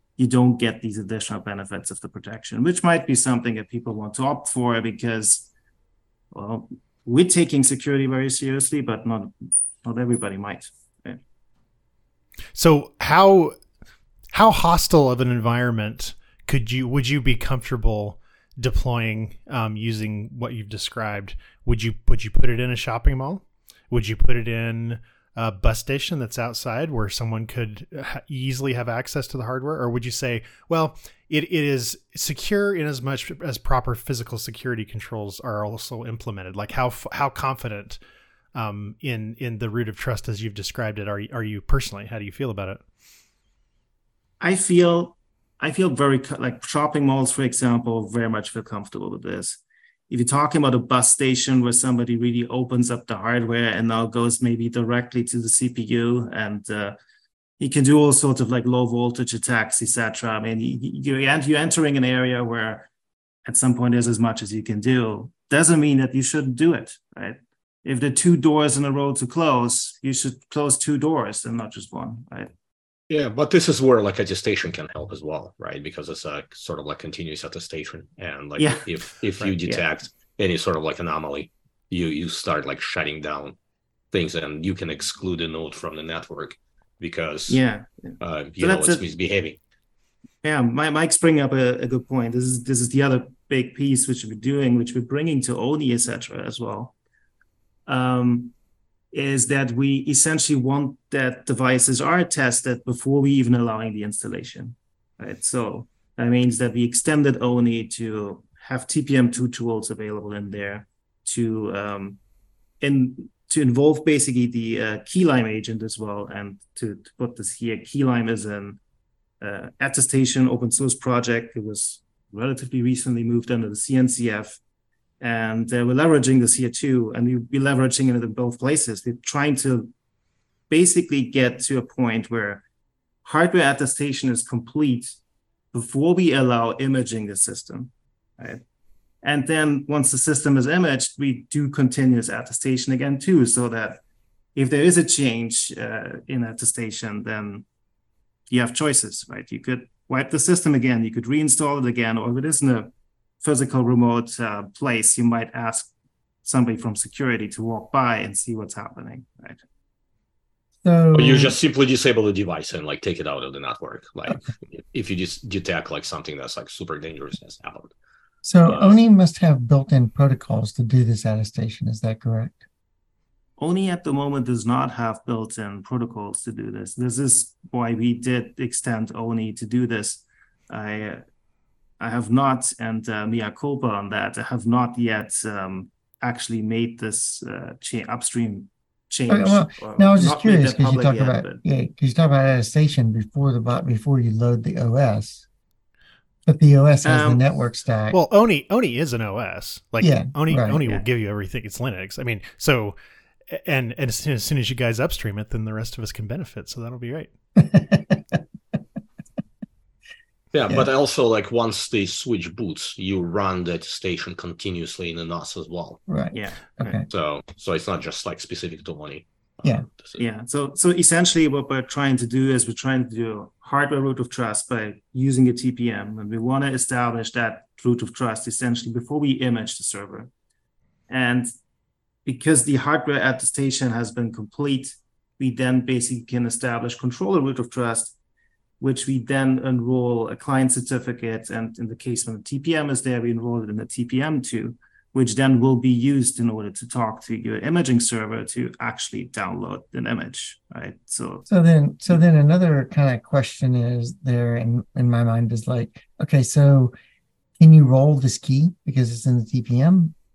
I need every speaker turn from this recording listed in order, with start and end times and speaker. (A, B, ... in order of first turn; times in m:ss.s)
0:00.2-0:05.5 A
0:06.3-0:11.2 A
0:12.5-0:13.6 B
0:14.3-0:38.0 B
0:38.5-0:42.8 B
0:44.4-0:56.9 A
0:57.6-1:02.9 A
1:03.4-1:12.5 A
1:13.1-1:23.6 C
1:18.6-1:18.8 A
1:19.5-1:19.8 A
1:24.1-1:27.6 C
1:27.5-1:29.0 A
1:28.2-1:29.6 C
1:30.4-1:36.9 A
1:37.9-1:38.5 A
1:39.1-1:52.2 A
1:52.8-1:58.8 A
1:59.4-2:04.6 A
2:05.2-2:09.9 A
2:10.7-2:12.6 A
2:13.2-2:15.2 A
2:15.7-2:18.6 A
2:19.2-2:24.0 A
2:24.5-2:27.6 A
2:28.5-2:32.9 A
2:33.4-2:35.9 A
2:36.4-2:39.6 A
2:40.8-2:41.6 D
2:41.1-2:47.9 C
2:48.4-2:52.6 D
2:48.7-2:48.9 C
2:53.6-3:01.2 A
3:02.0-3:11.6 A
3:09.3-3:15.4 D
3:16.4-3:18.2 D
3:17.0-3:17.5 A
3:18.1-3:23.0 B
3:20.0-3:20.8 D
3:23.5-3:27.3 B
3:27.6-3:28.4 D
3:30.5-3:36.0 C
3:36.1-3:37.0 D
3:36.3-3:37.0 A
3:37.1-3:40.2 C
3:40.2-3:50.3 A
3:51.1-3:51.5 A
3:52.2-3:58.1 A
3:58.8-4:11.5 A
4:11.5-4:16.9 D
4:17.6-4:20.1 D